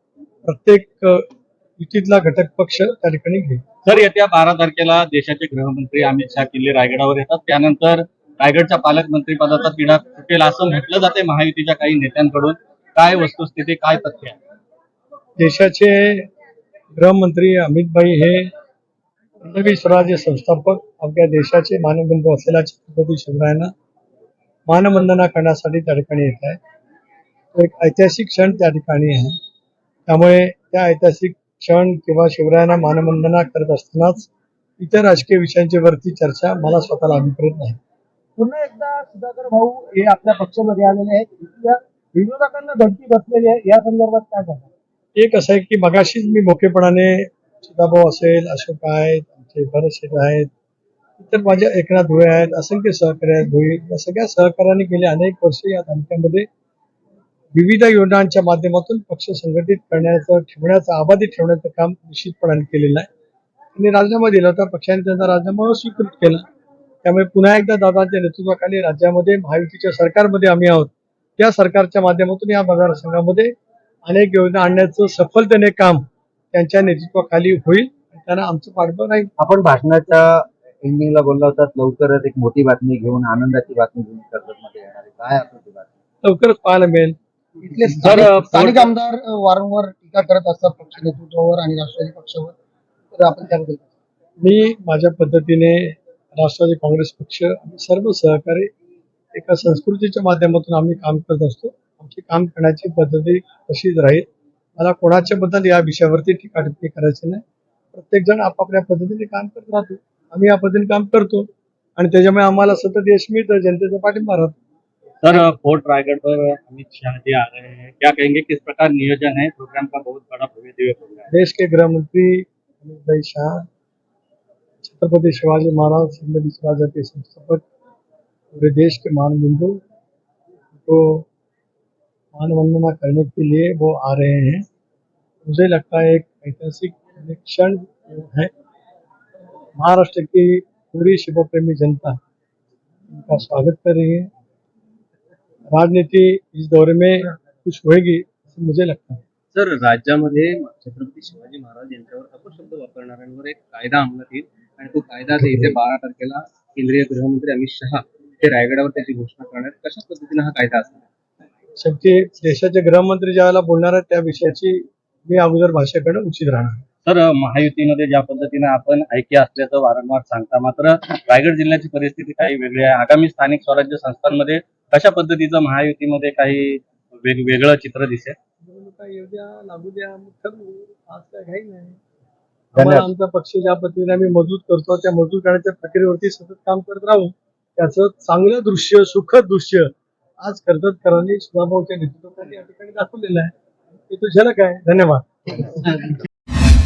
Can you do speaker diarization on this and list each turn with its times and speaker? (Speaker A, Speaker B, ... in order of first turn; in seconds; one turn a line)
Speaker A: 0.5-1.3
Speaker A: 1.8-3.6
Speaker B: 3.9-14.3
Speaker A: 15.4-16.3
Speaker A: 17.0-18.4
Speaker A: 19.4-23.7
Speaker A: 24.7-26.6
Speaker A: 27.5-29.3
Speaker A: 30.1-34.3
Speaker A: 34.8-37.8
Speaker C: 38.4-44.7
Speaker A: 45.1-50.5
Speaker A: 51.2-56.5
Speaker A: 57.5-63.1
Speaker A: 63.8-66.4
Speaker A: 67.0-73.5
Speaker A: 74.1-79.3
Speaker D: 79.4-85.9
Speaker A: 86.2-87.2
Speaker C: 87.6-92.5
Speaker E: 88.1-88.3
Speaker B: 88.3-88.8
Speaker C: 93.1-93.9
Speaker A: 94.4-98.7
Speaker A: 99.3-104.2
Speaker A: 104.8-107.4
Speaker A: 107.9-111.5
Speaker A: 112.0-114.5
Speaker B: 115.2-121.3
Speaker A: 121.3-123.6
Speaker A: 124.8-127.6
Speaker A: 128.6-129.8
Speaker A: 130.7-131.2
Speaker A: 132.3-134.6
Speaker A: 135.4-138.5
Speaker A: 139.8-142.2
Speaker A: 143.1-144.3
Speaker A: 145.7-149.2
Speaker E: 149.5-161.1
Speaker A: 155.4-155.7
Speaker A: 161.8-166.8
Speaker B: 167.0-178.3
Speaker A: 178.6-182.0
Speaker D: 182.7-183.1
Speaker A: 182.8-189.9
Speaker A: 190.4-193.5
Speaker A: 194.1-196.0